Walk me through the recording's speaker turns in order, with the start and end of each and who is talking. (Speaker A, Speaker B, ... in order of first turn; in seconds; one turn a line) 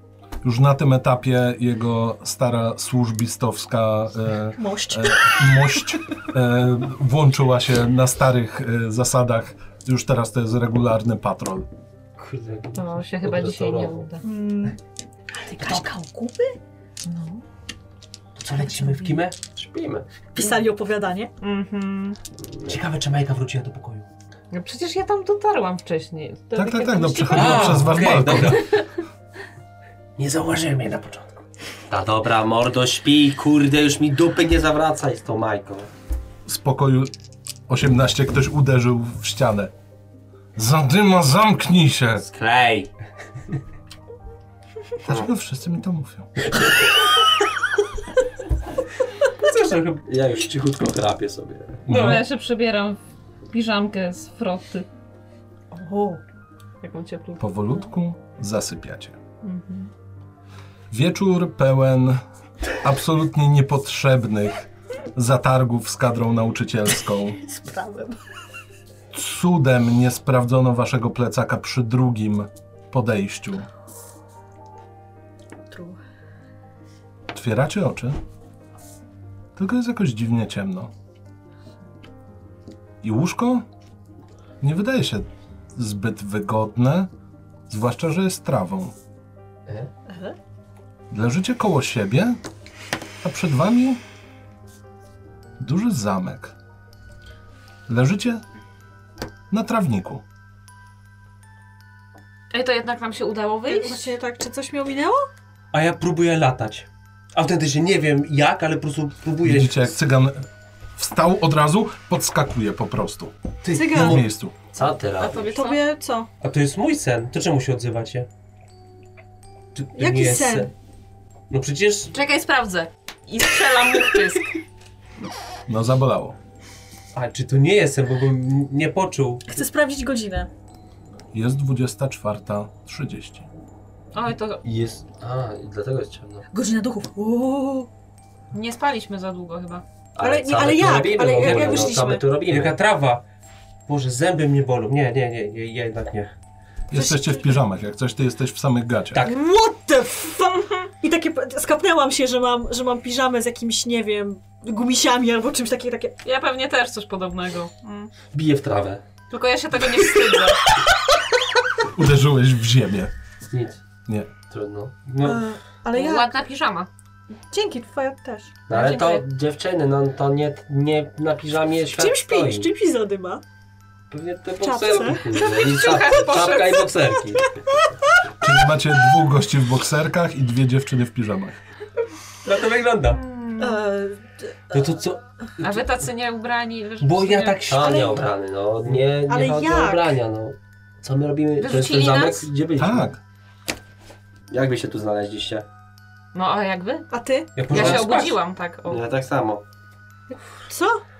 Speaker A: 0.4-11.7
Speaker B: 4.5-5.8
Speaker C: 12.2-14.1
Speaker D: 12.7-14.2
Speaker B: 14.2-14.8
Speaker B: 15.3-16.6
Speaker D: 17.0-17.4
Speaker E: 18.4-19.4
Speaker B: 18.9-19.1
Speaker C: 19.5-20.1
Speaker B: 20.3-21.3
Speaker D: 21.4-22.2
Speaker E: 22.6-24.1
Speaker D: 24.5-28.9
Speaker A: 26.5-28.6
Speaker E: 27.3-28.8
Speaker E: 30.2-31.3
Speaker C: 31.9-35.9
Speaker A: 36.5-37.1
Speaker A: 37.7-39.7
Speaker A: 40.5-42.2
Speaker C: 42.2-42.9
Speaker A: 45.0-46.3
Speaker E: 49.4-50.0
Speaker C: 50.0-51.9
Speaker A: 51.9-52.2
Speaker E: 51.9-52.2
Speaker D: 51.9-53.0
Speaker D: 53.5-54.9
Speaker B: 55.7-56.2
Speaker D: 56.8-57.4
Speaker A: 57.4-59.2
Speaker D: 59.4-59.9
Speaker A: 60.9-62.2
Speaker A: 62.8-67.4
Speaker B: 67.4-68.2
Speaker A: 69.1-73.7
Speaker B: 75.7-76.0
Speaker A: 77.3-78.2
Speaker A: 79.5-80.9
Speaker A: 83.0-83.6
Speaker A: 84.6-87.1
Speaker A: 87.7-88.9
Speaker B: 90.1-90.4
Speaker A: 91.1-92.4
Speaker A: 93.2-94.0
Speaker A: 95.6-96.5
Speaker A: 97.9-98.4
Speaker A: 99.5-100.2
Speaker D: 102.5-104.1
Speaker B: 103.7-105.2
Speaker E: 105.7-110.0
Speaker A: 109.4-113.3
Speaker E: 113.6-114.3
Speaker B: 113.7-114.2
Speaker A: 113.9-114.5
Speaker C: 114.7-115.5
Speaker D: 114.8-115.8
Speaker B: 115.5-116.3
Speaker E: 116.4-118.3
Speaker E: 119.7-120.7
Speaker B: 120.0-120.7
Speaker E: 121.5-122.1
Speaker D: 122.1-124.5
Speaker A: 125.7-126.4
Speaker E: 127.1-129.6
Speaker B: 129.5-130.5
Speaker A: 131.3-133.5
Speaker D: 134.1-134.6
Speaker C: 134.6-136.4
Speaker B: 136.5-137.9
Speaker D: 138.5-139.8
Speaker C: 140.1-142.7
Speaker B: 140.2-142.2
Speaker E: 141.4-141.9
Speaker E: 142.5-143.2
Speaker E: 143.9-146.3
Speaker A: 146.9-149.2
Speaker B: 146.9-147.6
Speaker B: 149.2-156.2
Speaker D: 156.2-158.1
Speaker C: 158.3-159.0
Speaker D: 159.3-160.6
Speaker A: 161.9-163.1
Speaker C: 163.5-163.8
Speaker C: 164.5-164.9
Speaker E: 165.1-165.4
Speaker B: 165.2-166.3
Speaker D: 165.9-166.9
Speaker B: 167.5-168.6
Speaker C: 168.7-172.7
Speaker D: 168.7-169.2
Speaker B: 171.9-173.4
Speaker C: 174.1-177.4
Speaker B: 174.6-175.7
Speaker D: 175.5-177.0
Speaker A: 178.4-181.6
Speaker E: 182.4-183.2
Speaker D: 183.2-183.8
Speaker B: 183.6-184.9
Speaker E: 184.7-185.9
Speaker D: 185.6-188.2
Speaker E: 187.0-188.3
Speaker C: 187.7-193.1
Speaker B: 189.2-190.1
Speaker D: 191.6-192.5
Speaker A: 192.8-193.2
Speaker C: 194.5-195.7
Speaker D: 196.3-197.1
Speaker B: 197.1-197.7
Speaker E: 197.6-198.4
Speaker D: 197.6-199.0
Speaker C: 197.7-198.0
Speaker C: 198.8-199.6
Speaker B: 200.7-201.0